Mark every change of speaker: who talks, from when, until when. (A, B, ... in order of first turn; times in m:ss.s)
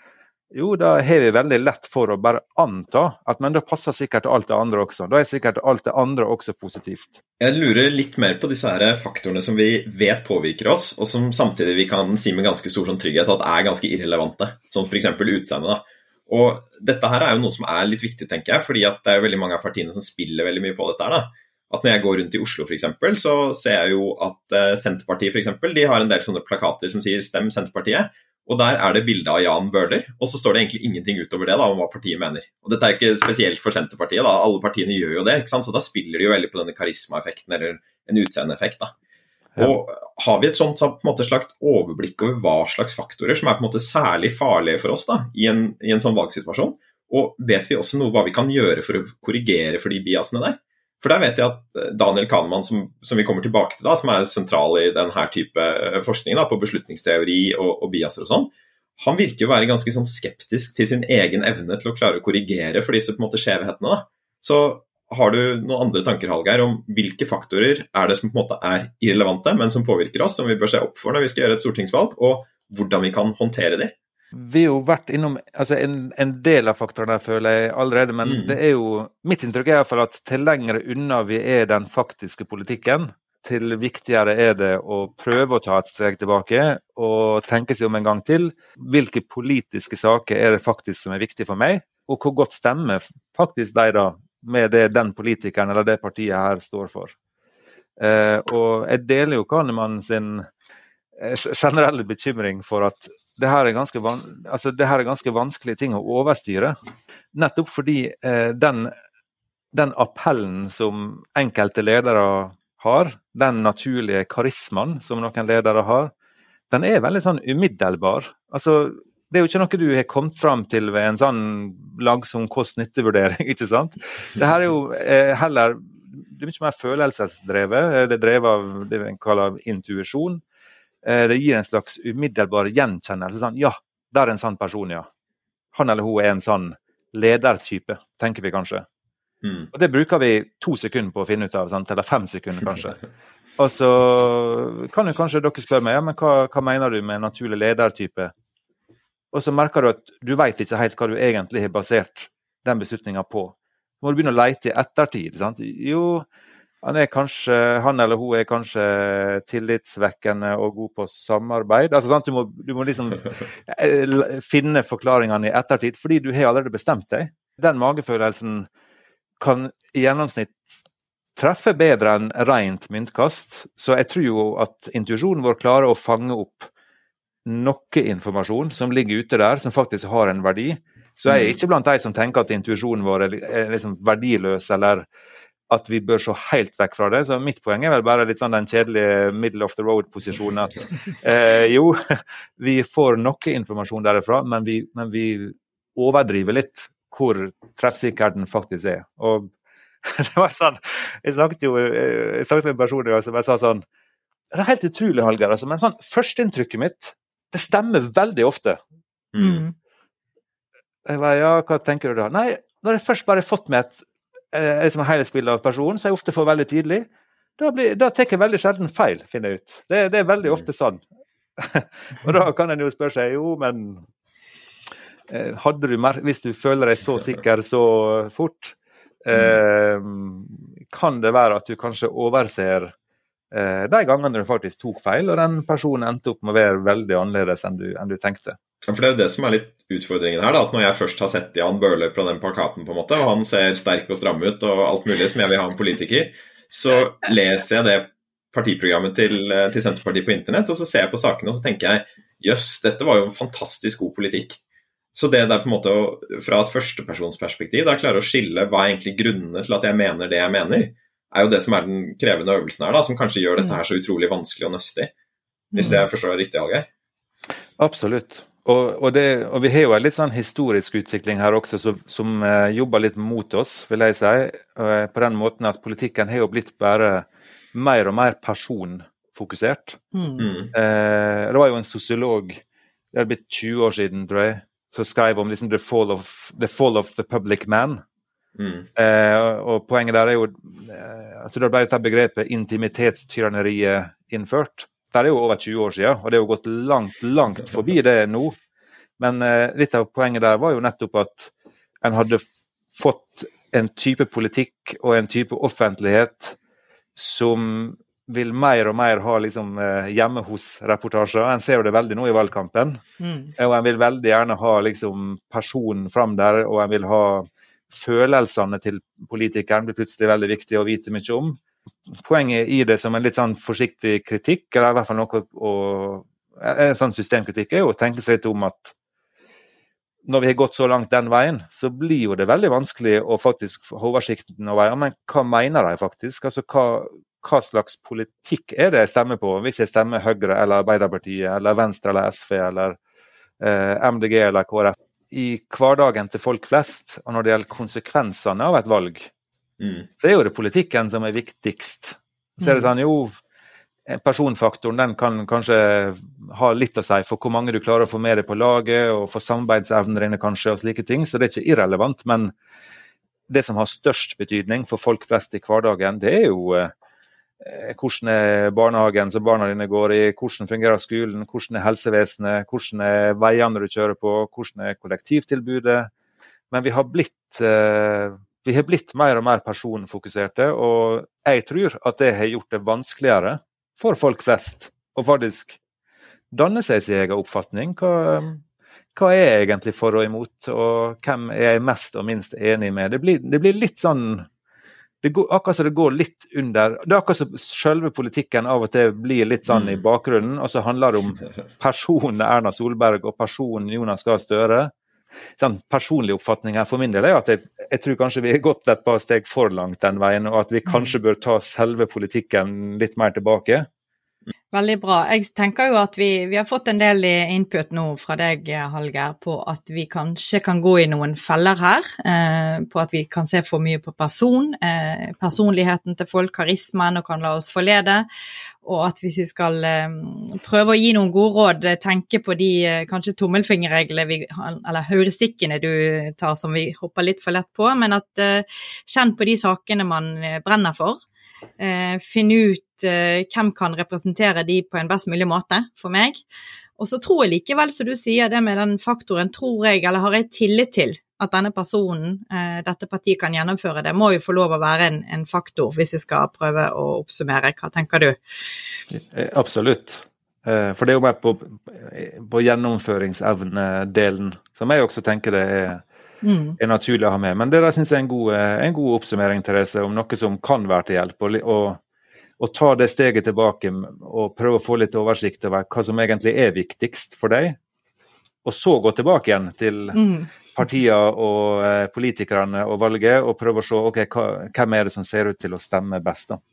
0:00.5-0:07.2 A
0:07.4-0:38.9 B
0:39.6-1:14.0 B
1:14.3-1:37.2 A
1:18.2-1:18.6 B
1:38.0-1:40.5 A
1:41.2-1:46.8 A
1:47.3-1:48.9 A
1:49.7-1:56.1 A
1:56.7-2:10.4 A
2:11.0-2:15.1 A
2:15.7-2:18.9 A
2:19.4-2:19.7 B
2:19.7-2:23.0 A
2:23.6-2:28.3 A
2:29.3-2:36.2 A
2:36.8-2:48.7 A
2:49.4-2:50.7 A
2:51.4-2:56.7 A
2:57.4-3:05.1 A
3:01.3-3:01.6 B
3:05.7-3:19.5 A
3:20.0-3:23.8 A
3:24.5-3:28.8 A
3:29.3-3:29.6 B
3:29.4-3:29.7 C
3:31.1-3:37.1 A
3:37.6-3:41.0 A
3:41.6-3:44.0 A
3:45.3-3:52.9 A
3:53.5-3:58.6 A
3:58.8-4:14.6 B
4:15.2-4:25.1 B
4:25.7-4:26.1 C
4:25.8-4:26.9 B
4:27.8-4:40.0 A
4:40.1-4:40.5 C
4:40.4-4:40.7 B
4:40.7-4:42.6 A
4:43.1-4:48.0 A
4:48.6-4:48.9 B
4:49.0-4:58.6 A
4:59.2-5:01.5 A
5:02.0-5:06.6 A
5:07.2-5:13.0 A
5:13.2-5:13.5 C
5:13.6-5:21.6 A
5:22.1-5:28.9 A
5:30.3-5:43.0 A
5:43.6-5:49.3 A
5:49.8-5:50.1 B
5:50.2-5:53.4 A
5:52.6-5:52.9 C
5:54.1-6:02.5 A
6:03.5-6:06.9 A
6:07.6-6:16.1 A
6:16.7-6:25.8 A
6:26.5-6:28.6 A
6:29.2-6:34.5 A
6:35.2-6:44.9 A
6:39.7-6:40.0 B
6:45.6-6:53.9 A
6:54.7-7:08.3 C
7:08.8-7:21.2 C
7:21.8-7:26.4 C
7:27.0-7:38.4 C
7:39.1-7:46.0 A
7:46.4-7:46.8 C
7:46.8-7:52.0 A
7:52.6-7:57.8 A
7:58.6-8:00.2 A
8:00.2-8:00.5 C
8:00.8-8:06.6 A